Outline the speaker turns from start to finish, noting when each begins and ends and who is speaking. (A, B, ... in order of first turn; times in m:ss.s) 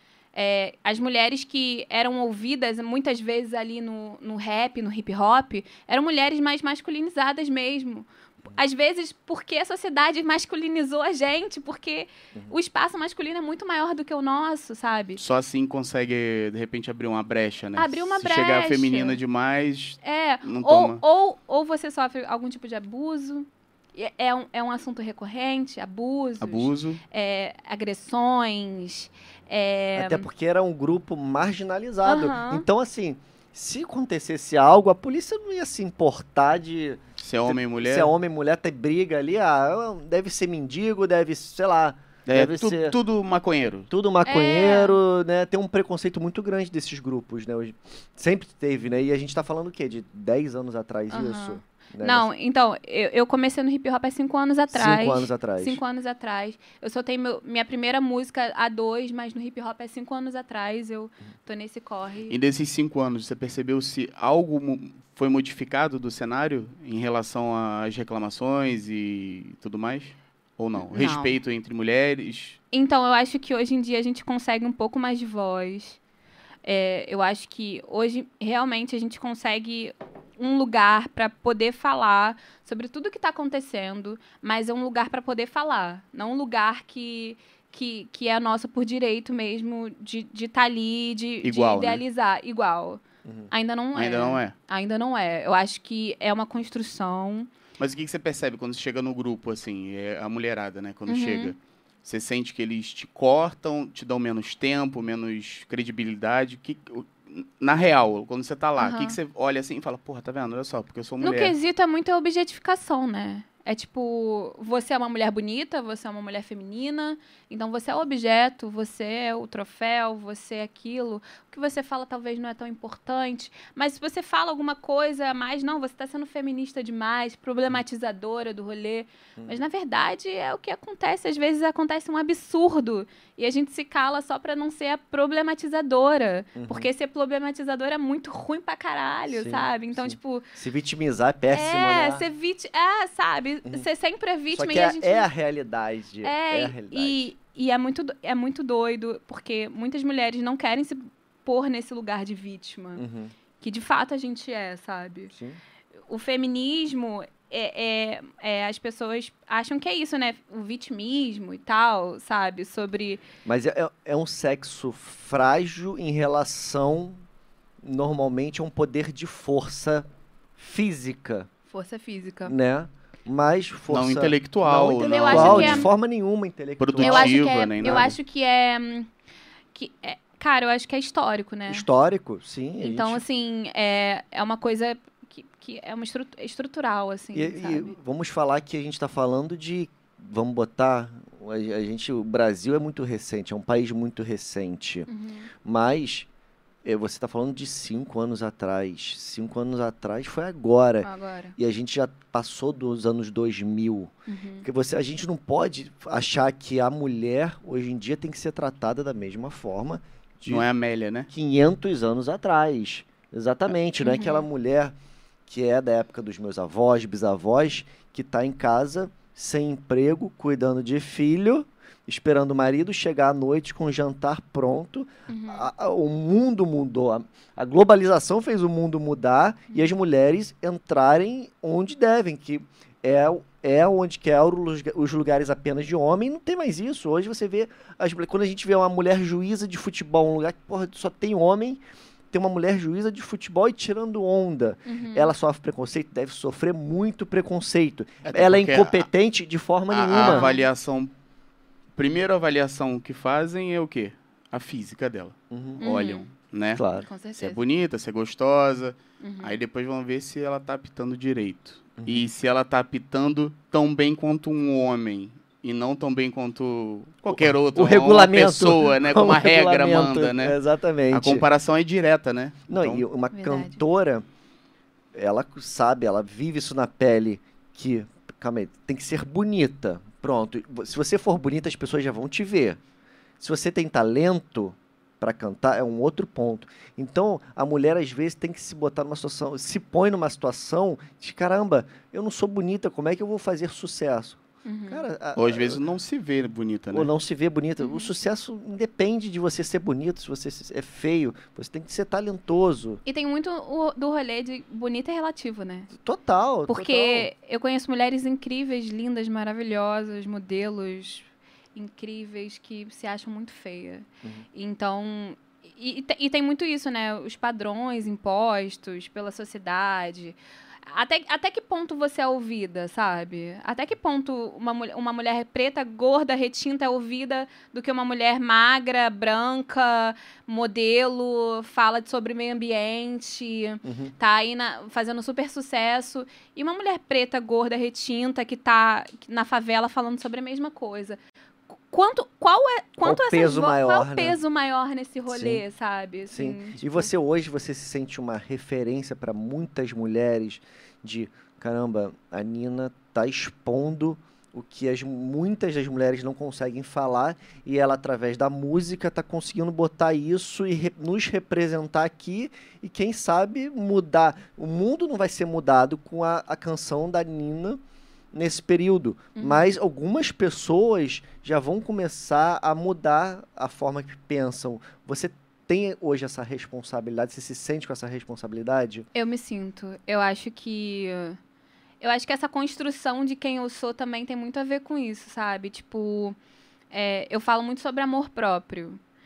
0:00.3-0:15.2 A
0:15.2-0:21.0 B
0:17.8-0:19.2 A
0:20.0-0:30.2 A
0:26.4-0:27.0 B
0:30.0-0:43.0 C
0:32.0-0:32.6 A
0:37.2-0:38.1 B
0:42.3-0:43.9 B
0:43.9-0:52.3 C
0:44.2-0:45.0 A
0:51.1-1:02.4 A
0:54.7-0:55.8 C
1:02.3-1:12.6 B
1:10.8-1:11.4 A
1:12.7-1:16.0 A
1:16.6-1:37.5 A
1:31.4-1:32.0 B
1:33.2-1:33.5 C
1:33.9-1:34.5 B
1:37.8-1:51.5 B
1:41.1-1:41.5 A
1:48.8-1:49.2 A
1:51.2-2:20.4 A
2:16.6-2:16.9 C
2:19.3-2:22.2 C
2:21.5-2:25.3 A
2:24.5-2:27.3 C
2:26.2-2:33.0 A
2:33.0-2:33.3 C
2:33.6-2:35.3 A
2:35.3-2:35.6 C
2:36.1-2:43.2 A
2:43.4-2:47.2 C
2:47.8-2:50.0 C
2:50.6-2:51.5 C
2:51.7-2:52.5 A
2:52.4-2:58.2 C
2:53.9-2:55.9 B
2:55.0-2:55.9 A
2:56.8-2:58.1 B
2:57.0-2:59.1 A
2:59.7-3:01.8 A
3:01.7-3:03.2 C
3:02.8-3:07.9 A
3:07.3-3:15.1 C
3:15.1-3:15.5 A
3:15.6-3:16.3 C
3:16.8-3:24.1 C
3:21.0-3:21.6 A
3:24.3-3:24.6 A
3:24.6-3:30.7 C
3:30.4-3:31.3 B
3:31.3-3:34.9 C
3:34.0-3:34.4 A
3:35.5-4:10.5 C
3:45.3-3:45.7 A
4:04.8-4:05.3 A
4:08.2-4:09.1 B
4:09.9-4:11.1 B
4:10.2-4:10.6 A
4:12.0-4:16.8 B
4:15.5-4:15.8 C
4:15.8-4:16.3 A
4:16.8-4:17.0 C
4:17.0-4:17.6 A
4:17.4-4:30.6 B
4:19.2-4:19.6 A
4:22.0-4:22.3 C
4:27.3-4:31.4 C
4:31.1-4:33.0 B
4:32.7-4:34.2 C
4:33.3-4:33.8 A
4:35.1-4:42.8 C
4:43.4-4:55.8 C
4:54.6-4:55.1 A
4:55.4-4:57.1 B
4:56.9-5:03.0 C
4:57.8-4:58.1 A
5:03.0-5:05.9 A
5:05.9-5:07.3 C
5:06.7-5:41.2 A
5:33.8-5:34.1 C
5:41.9-5:47.1 A
5:43.0-5:44.4 C
5:45.3-5:45.6 C
5:46.3-6:07.8 C
6:08.3-6:19.1 C
6:09.4-6:09.7 A
6:19.1-6:21.4 A
6:22.0-6:26.4 A
6:26.9-6:29.0 A